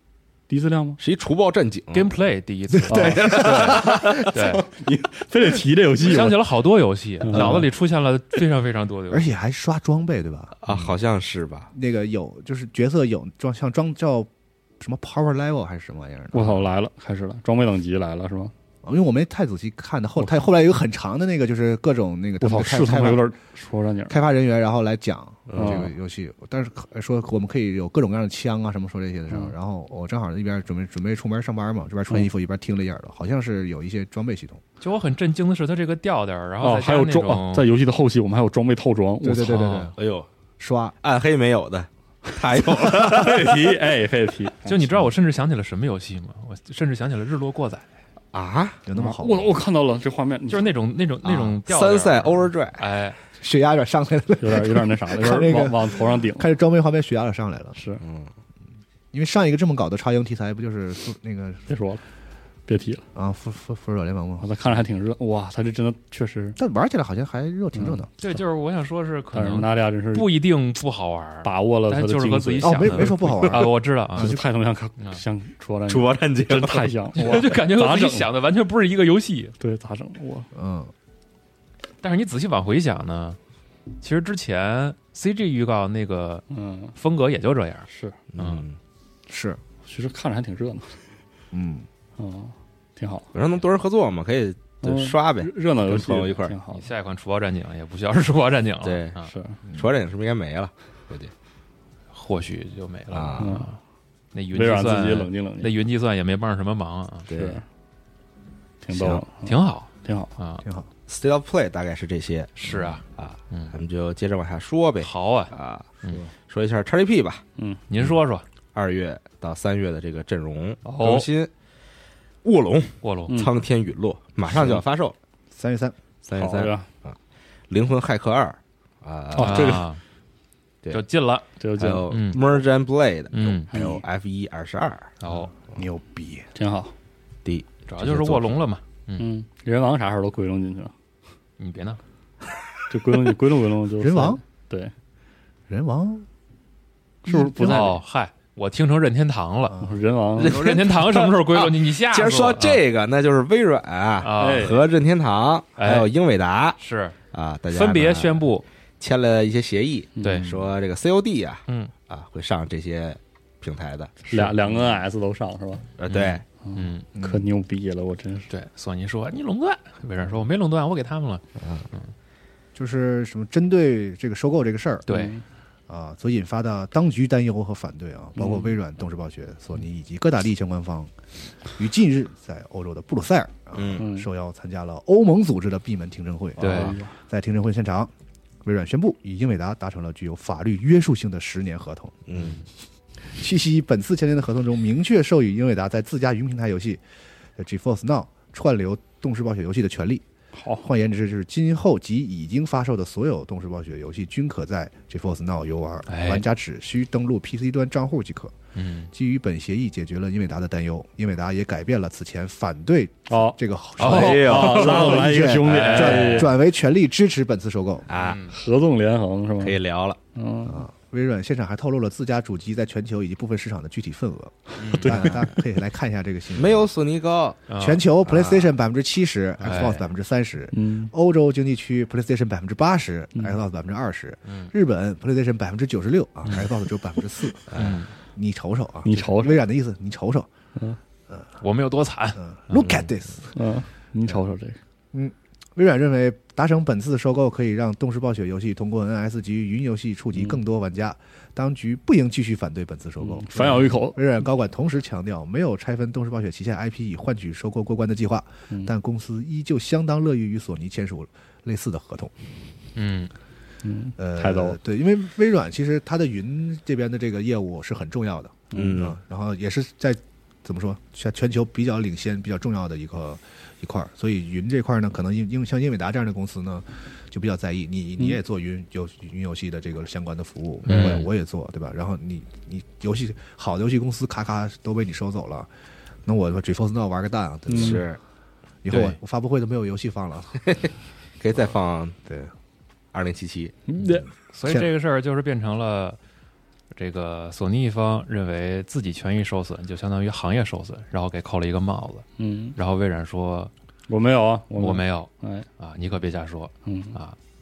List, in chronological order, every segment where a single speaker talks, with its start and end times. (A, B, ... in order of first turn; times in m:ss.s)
0:00.5-0:01.0 A
0:01.0-0:02.1 B
0:01.9-0:04.7 C
0:02.7-0:04.4 D
0:02.9-0:06.4 A
0:03.3-0:04.0 B
0:06.0-0:09.3 C
0:07.2-0:07.7 A
0:09.1-0:10.6 D
0:10.6-0:11.7 B
0:11.7-0:14.3 D
0:14.8-0:16.6 D
0:16.3-0:18.5 A
0:18.8-0:23.3 D
0:20.2-0:20.5 A
0:22.4-0:24.2 A
0:24.1-0:34.6 D
0:25.5-0:25.9 B
0:25.6-0:25.9 A
0:34.8-0:37.7 C
0:36.6-0:39.7 A
0:39.2-0:40.0 D
0:39.4-0:39.9 C
0:40.0-0:40.3 B
0:40.6-0:41.0 D
0:41.0-0:43.8 B
0:42.5-0:44.8 A
0:44.7-0:47.9 C
0:48.3-0:48.8 B
0:48.9-0:49.6 D
0:49.0-0:50.7 A
0:50.5-0:53.2 C
0:51.2-0:52.8 B
0:53.4-0:57.8 D
0:54.4-0:56.5 A
0:57.8-0:58.0 A
0:58.0-0:58.3 B
0:59.1-1:01.6 D
1:01.7-1:02.0 A
1:02.7-1:03.0 A
1:03.2-1:04.5 D
1:04.4-1:06.6 A
1:06.6-1:08.1 D
1:07.8-1:08.0 A
1:08.2-1:14.4 C
1:09.3-1:10.4 A
1:11.4-1:18.3 A
1:12.6-1:14.4 D
1:15.9-1:16.9 B
1:17.2-1:19.6 C
1:19.6-1:20.5 A
1:20.5-1:20.9 D
1:22.0-1:23.4 C
1:24.0-1:26.4 C
1:26.5-1:27.0 A
1:27.0-1:28.6 C
1:27.9-1:28.2 A
1:28.3-1:28.8 B
1:29.3-1:29.6 D
1:29.8-1:31.0 A
1:31.5-1:31.9 D
1:32.2-1:33.3 A
1:33.3-1:36.6 B
1:34.8-1:36.9 A
1:36.7-1:39.3 C
1:38.8-1:39.2 B
1:39.2-1:39.6 A
1:39.7-1:41.3 B
1:42.1-1:43.8 C
1:43.1-1:43.6 B
1:43.4-1:43.7 A
1:44.3-1:47.3 C
1:44.5-1:45.7 A
1:47.3-1:47.6 B
1:47.3-1:47.6 A
1:48.8-1:50.3 A
1:48.9-1:49.2 B
1:49.4-1:50.6 C
1:51.1-1:55.9 B
1:52.6-1:53.7 C
1:55.0-1:56.2 C
1:56.5-1:57.4 B
1:57.9-1:58.4 C
1:58.8-2:01.5 B
2:00.8-2:01.2 C
2:01.0-2:01.2 A
2:02.4-2:05.2 B
2:03.0-2:03.4 C
2:03.3-2:03.5 A
2:05.5-2:06.0 D
2:06.2-2:07.2 B
2:06.3-2:06.9 A
2:07.7-2:09.8 B
2:09.3-2:09.9 A
2:09.4-2:10.0 C
2:10.9-2:11.5 C
2:11.6-2:12.2 A
2:11.8-2:15.1 B
2:12.1-2:12.4 C
2:13.3-2:13.7 C
2:13.7-2:14.0 A
2:15.2-2:15.5 C
2:15.3-2:16.5 D
2:16.6-2:16.9 A
2:17.4-2:18.5 B
2:17.9-2:19.3 C
2:19.2-2:20.9 A
2:21.6-2:22.0 C
2:22.9-2:24.9 A
2:24.0-2:24.4 D
2:25.7-2:26.3 D
2:27.2-2:28.0 A
2:27.3-2:28.0 D
2:27.6-2:29.8 C
2:29.8-2:30.6 A
2:30.4-2:36.8 B
2:30.4-2:32.8 C
2:34.2-2:34.8 C
2:34.4-2:34.8 A
2:35.8-2:36.1 C
2:36.8-2:37.2 C
2:37.3-2:38.4 B
2:37.7-2:38.6 C
2:39.0-2:44.3 B
2:40.2-2:40.5 A
2:40.2-2:40.6 C
2:41.7-2:41.9 C
2:44.3-2:45.8 A
2:46.0-2:46.4 B
2:46.1-2:47.0 C
2:46.7-2:48.5 A
2:47.2-2:47.5 D
2:48.5-2:52.1 C
2:51.6-2:51.9 B
2:52.8-2:55.0 D
2:55.1-2:55.4 C
2:55.1-2:55.4 A
2:55.9-3:01.1 D
2:58.4-2:58.7 A
3:01.8-3:08.1 D
3:03.8-3:04.1 B
3:04.0-3:04.3 A
3:06.6-3:07.1 A
3:06.6-3:07.0 C
3:08.6-3:12.2 D
3:12.3-3:12.6 B
3:13.4-3:17.0 D
3:17.6-3:20.2 D
3:20.6-3:20.9 A
3:20.8-3:28.5 D
3:26.1-3:26.5 C
3:28.8-3:29.1 C
3:29.1-3:38.1 D
3:33.3-3:36.5 A
3:34.0-3:36.6 C
3:34.0-3:35.2 B
3:38.1-3:38.4 B
3:38.2-3:38.6 C
3:38.5-3:39.8 A
3:39.6-3:40.2 B
3:40.4-3:40.8 A
3:40.7-3:46.9 D
3:44.8-3:45.3 C
3:44.9-3:45.4 A
3:46.6-3:47.6 B
3:47.7-3:48.1 C
3:47.8-3:57.7 D
3:48.3-3:48.7 B
3:49.6-3:50.1 C
3:50.7-3:51.1 A
3:54.5-3:54.7 C
3:57.7-3:58.0 B
3:57.8-3:58.1 C
3:58.3-4:00.5 D
3:59.0-3:59.6 A
4:01.6-4:02.4 C
4:02.4-4:03.5 D
4:03.5-4:04.8 A
4:05.1-4:22.3 D
4:13.2-4:14.2 A
4:23.0-4:23.3 C
4:23.8-4:24.8 A
4:24.2-4:45.7 D
4:28.7-4:29.0 A
4:28.7-4:29.2 B
4:40.9-4:41.3 C
4:46.2-4:48.1 D
4:47.7-4:48.0 A
4:47.7-4:48.2 B
4:48.8-4:50.8 D
4:48.9-4:49.2 C
4:51.4-4:52.2 B
4:52.3-4:52.5 D
4:53.1-4:53.8 B
4:53.9-4:54.3 A
4:54.5-4:56.2 C
4:56.9-5:03.7 C
5:02.4-5:02.8 A
5:04.1-5:05.7 A
5:04.8-5:07.4 C
5:06.9-5:07.2 A